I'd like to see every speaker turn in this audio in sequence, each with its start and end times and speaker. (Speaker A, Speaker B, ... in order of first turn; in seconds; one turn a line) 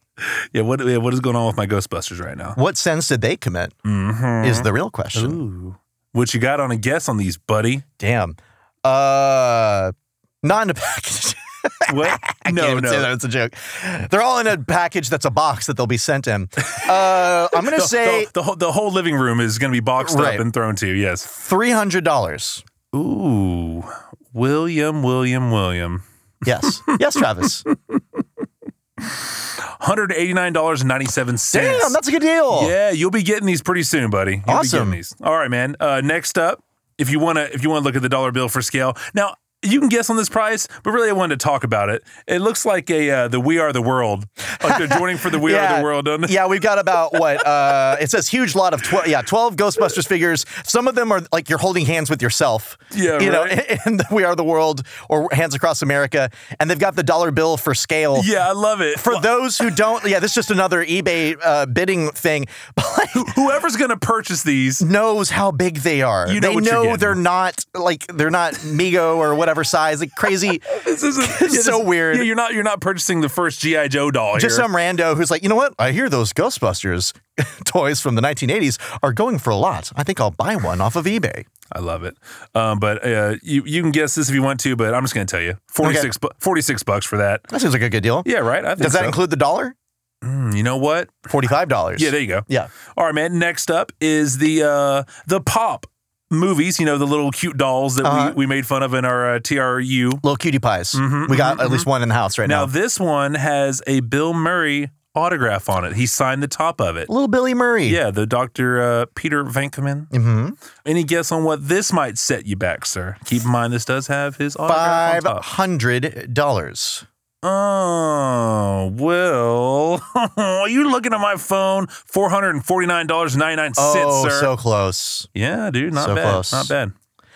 Speaker A: 0.2-2.6
Speaker B: 2.5-3.8
Speaker A: 3.9-7.8
Speaker B: 4.4-5.4
Speaker B: 8.0-18.3
Speaker A: 11.9-13.1
Speaker A: 17.7-21.3
Speaker B: 20.0-20.4
Speaker B: 21.2-22.6
Speaker A: 22.9-26.0
Speaker B: 26.4-27.6
Speaker A: 29.8-32.0
Speaker B: 31.5-32.7
Speaker A: 32.5-46.4
Speaker B: 34.5-35.0
Speaker B: 44.6-58.3
Speaker A: 52.9-53.6
Speaker A: 58.1-59.3
Speaker B: 58.9-63.4
Speaker A: 63.1-64.9
Speaker B: 64.8-72.3
Speaker A: 66.3-67.2
Speaker A: 70.7-74.7
Speaker B: 74.3-81.5
Speaker A: 81.7-87.5
Speaker B: 85.8-86.1
Speaker B: 87.5-89.8
Speaker A: 88.2-89.2
Speaker A: 90.2-91.2
Speaker B: 91.3-92.7
Speaker A: 92.0-100.2
Speaker B: 98.0-98.4
Speaker B: 100.2-102.7
Speaker A: 100.9-101.9
Speaker A: 102.4-107.1
Speaker B: 107.1-108.0
Speaker A: 107.9-110.1
Speaker B: 110.1-110.6
Speaker A: 110.8-115.5
Speaker B: 114.7-117.0
Speaker A: 117.4-124.5
Speaker B: 123.8-125.3
Speaker A: 125.3-126.9
Speaker B: 126.0-126.7